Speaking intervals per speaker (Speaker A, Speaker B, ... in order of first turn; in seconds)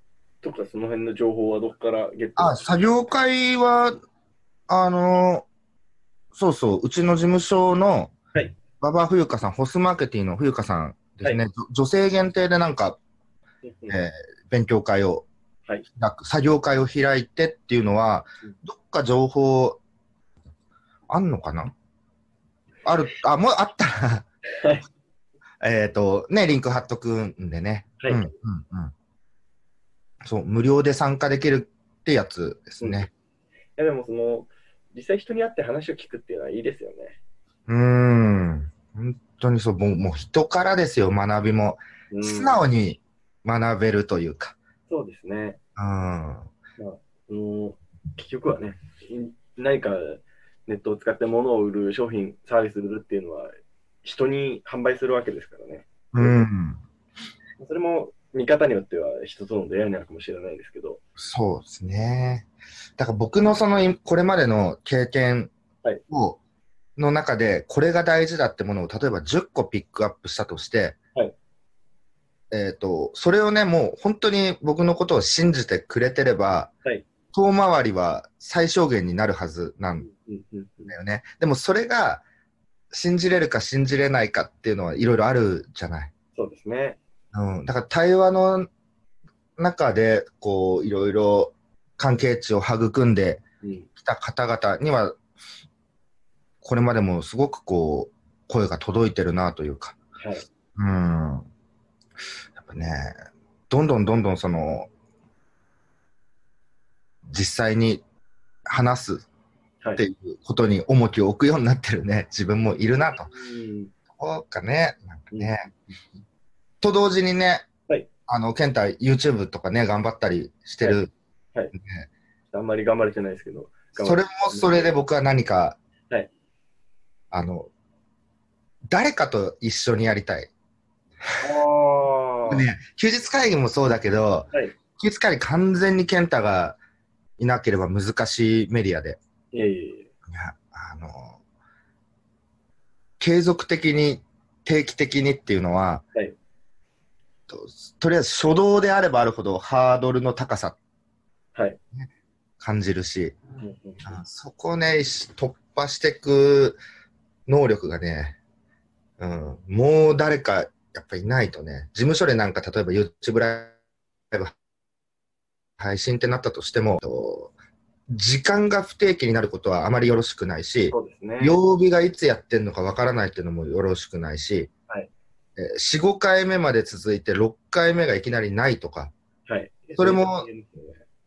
Speaker A: 0.4-2.6, 13.6-14.0, 24.6-24.9, 28.0-28.3, 32.8-33.1, 33.8-37.2, 42.1-42.6, 44.9-45.6, 46.8-53.5, 54.0-56.4, 57.6-61.0, 80.0-81.0, 86.3-87.0, 93.6-93.9, 100.2-100.5, 113.3-113.9, 115.3-115.6, 120.8-121.7, 122.5-124.9, 131.4-132.7, 139.5-140.1, 153.6-154.2, 170.9-171.6, 179.5-181.0
Speaker B: 2.4-4.0, 4.7-5.5, 6.3-8.2, 8.8-13.0, 13.9-15.3, 15.9-19.8, 21.1-21.7, 22.9-24.3, 25.6-28.9, 30.2-33.1, 37.7-44.6, 45.8-46.5, 56.1-56.8, 61.2-65.5, 66.1-66.4, 67.0-71.0, 72.5-76.7, 77.3-80.1, 80.9-82.2, 82.9-86.1, 87.3-88.7, 89.6-93.4, 94.0-95.2, 96.6-100.0, 100.8-101.5, 102.6-103.2, 103.7-104.9, 107.3-108.0, 108.7-109.3, 110.0-113.3, 114.2-115.7, 116.8-117.7, 118.3-121.1, 121.7-122.1, 124.0-125.8, 127.3-127.7, 128.9-130.5, 132.5-136.8, 137.4-139.2, 140.3-141.4, 143.2-146.0, 147.5-150.8, 152.6-153.4, 154.1-156.8, 157.5-158.4, 159.2-163.7, 165.8-167.5, 168.1-174.7, 175.6-179.1, 180.0-180.5